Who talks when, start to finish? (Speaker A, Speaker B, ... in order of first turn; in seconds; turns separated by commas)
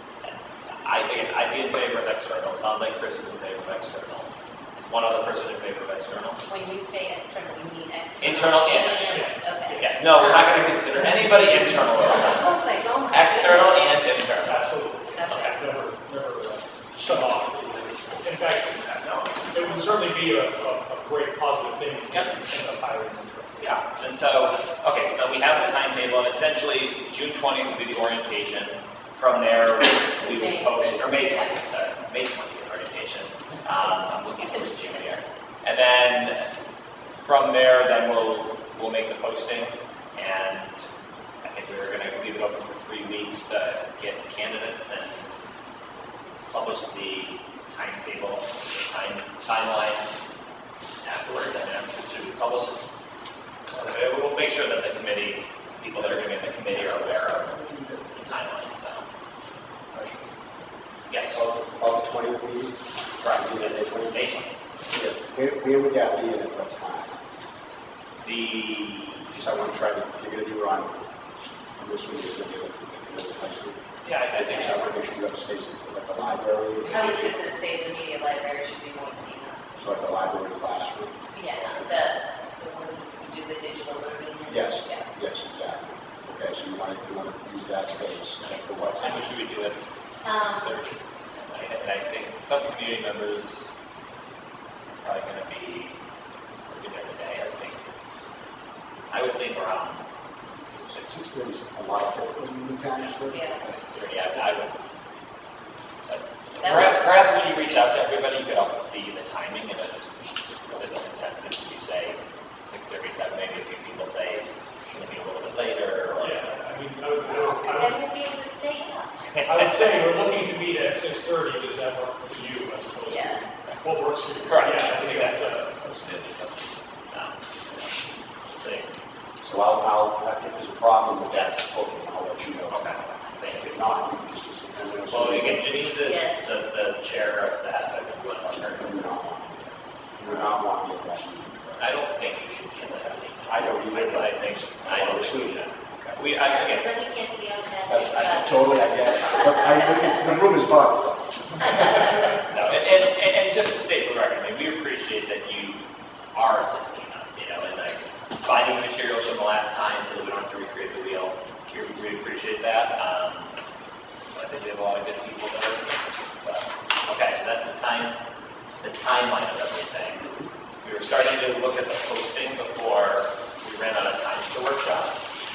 Speaker A: 0.2-6.4, Speaker B: 6.5-10.7, Speaker A: 8.2-9.2, Speaker C: 9.0-10.2, Speaker A: 9.8-12.5, Speaker B: 12.0-13.9, Speaker A: 13.1-15.5, Speaker C: 14.4-23.7, Speaker B: 15.1-15.6, Speaker A: 19.0-19.6, Speaker A: 23.6-36.5, Speaker B: 30.2-31.6, Speaker A: 37.1-40.8, Speaker A: 41.4-45.3, Speaker A: 46.5-50.0, Speaker A: 51.0-52.8, Speaker A: 53.7-57.5, Speaker D: 55.9-58.2, Speaker A: 58.1-59.1, Speaker D: 59.9-60.4, Speaker A: 61.1-61.4, Speaker D: 61.3-64.3, Speaker A: 63.2-64.5, Speaker D: 64.9-67.1, Speaker A: 68.2-69.3, Speaker D: 69.3-71.1, Speaker D: 71.8-77.2, Speaker A: 74.0-74.8, Speaker B: 76.8-79.6, Speaker A: 76.9-77.1, Speaker D: 79.8-81.2, Speaker B: 81.3-85.0, Speaker D: 84.5-89.3, Speaker A: 88.5-93.6, Speaker B: 90.2-90.8, Speaker A: 95.0-96.0, Speaker A: 96.7-97.8, Speaker A: 99.1-100.1, Speaker A: 100.6-101.2, Speaker D: 101.0-103.8, Speaker B: 103.3-103.6, Speaker A: 103.6-104.8, Speaker A: 106.1-110.0, Speaker B: 106.6-107.1, Speaker A: 110.7-116.4, Speaker C: 116.1-118.0, Speaker B: 117.2-119.2, Speaker C: 119.5-126.6, Speaker B: 123.0-123.4, Speaker A: 124.4-125.4, Speaker A: 127.0-127.9, Speaker A: 128.5-128.9, Speaker D: 129.4-135.9, Speaker A: 131.3-131.6, Speaker A: 132.7-133.9, Speaker A: 135.1-139.2, Speaker B: 136.0-136.5, Speaker D: 138.5-141.9, Speaker A: 140.2-140.5, Speaker A: 141.8-146.9, Speaker D: 143.4-146.2, Speaker B: 146.4-150.0, Speaker D: 147.9-152.1, Speaker A: 152.5-155.8, Speaker A: 156.3-163.5, Speaker A: 164.3-168.2, Speaker A: 168.8-170.3, Speaker D: 170.2-170.5, Speaker A: 170.8-175.1